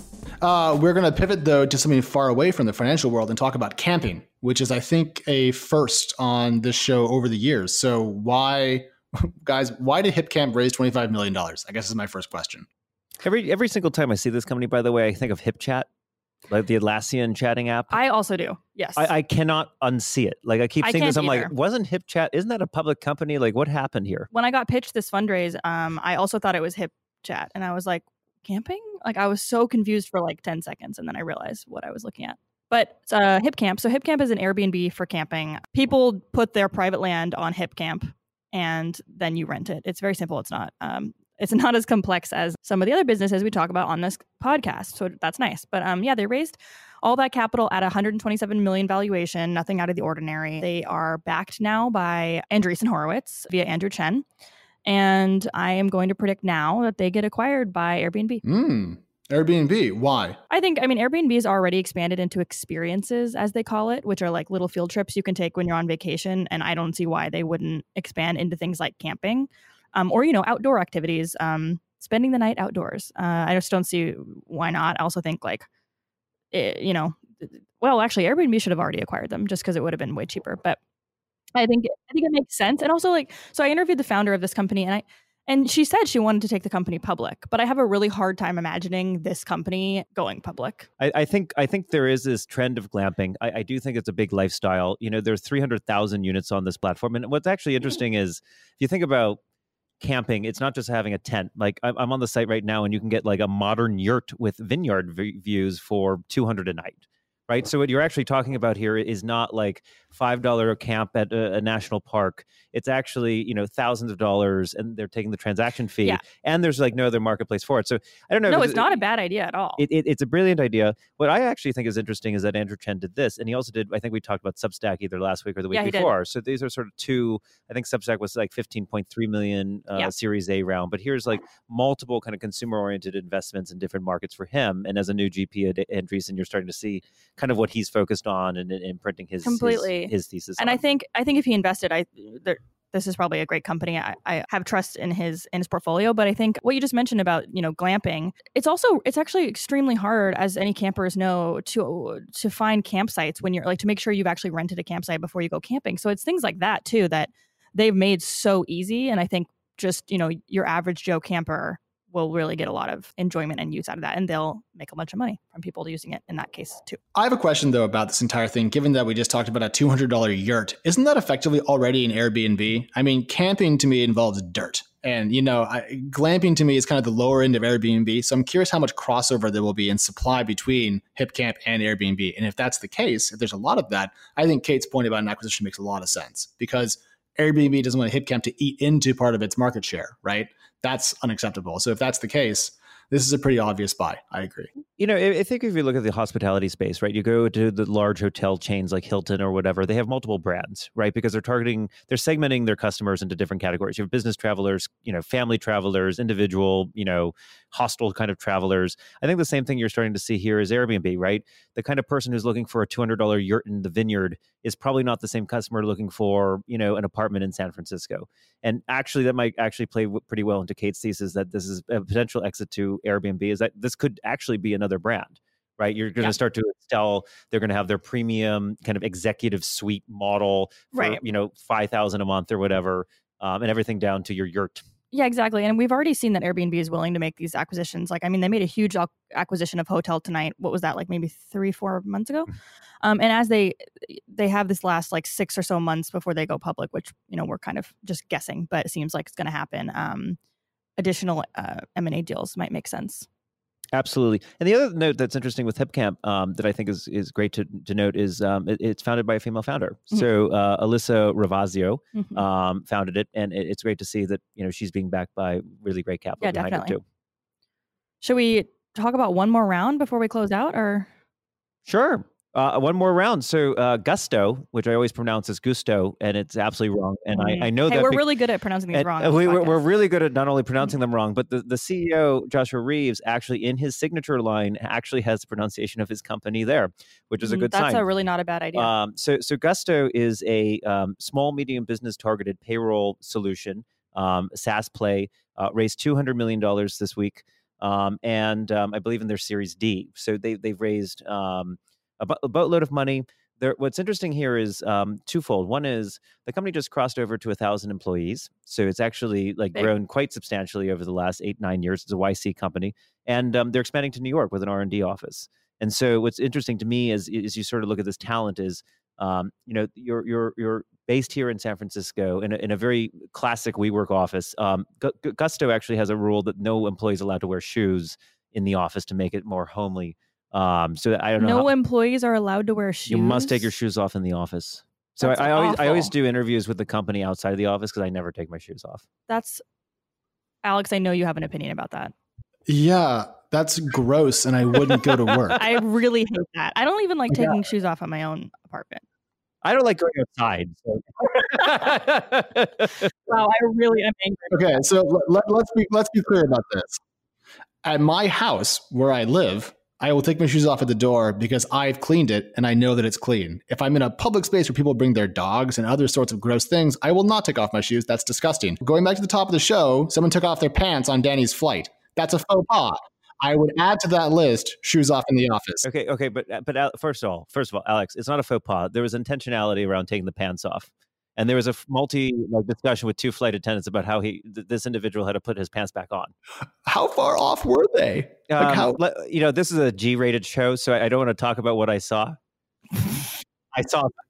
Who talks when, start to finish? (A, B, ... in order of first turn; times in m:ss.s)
0:00.4-0:12.7 A
0:13.2-0:15.9 B
0:16.5-0:18.0 B
0:17.9-0:19.1 C
0:19.0-0:24.3 B
0:20.8-0:21.5 C
0:24.3-0:54.2 C
0:54.8-0:58.4 C
0:58.4-1:00.4 A
1:00.5-1:15.7 C
1:16.5-1:20.8 C
1:21.6-1:30.9 C
1:31.0-1:39.4 B
1:40.0-1:59.0 B
1:58.5-1:59.8 C
1:59.8-2:20.8 B
2:05.7-2:06.1 C
2:19.4-2:47.0 C
2:47.2-3:14.7 A
3:15.0-3:54.8 B
3:50.9-3:51.2 C
3:55.1-4:10.4 C
4:11.0-4:13.3 C
4:13.9-4:27.0 B
4:22.2-4:22.4 C
4:26.4-4:26.9 C
4:28.2-4:31.1 C
4:31.9-4:38.3 B
4:37.3-4:39.8 C
4:38.9-4:48.0 B
4:47.4-4:48.9 C
4:48.8-5:31.7 B
5:31.4-5:33.7 C
5:33.1-5:39.1 B
5:35.2-5:36.1 C
5:39.3-5:39.6 C
5:40.6-5:42.1 C
5:42.7-5:45.6 A
5:45.6-5:49.0 C
5:47.3-5:47.6 A
5:49.6-5:53.1 B
5:53.3-5:54.7 C
5:54.5-5:57.0 A
5:57.8-6:15.9 A
6:15.8-6:26.3 B
6:26.9-6:29.0 A
6:28.5-6:32.4 B
6:33.8-6:34.1 B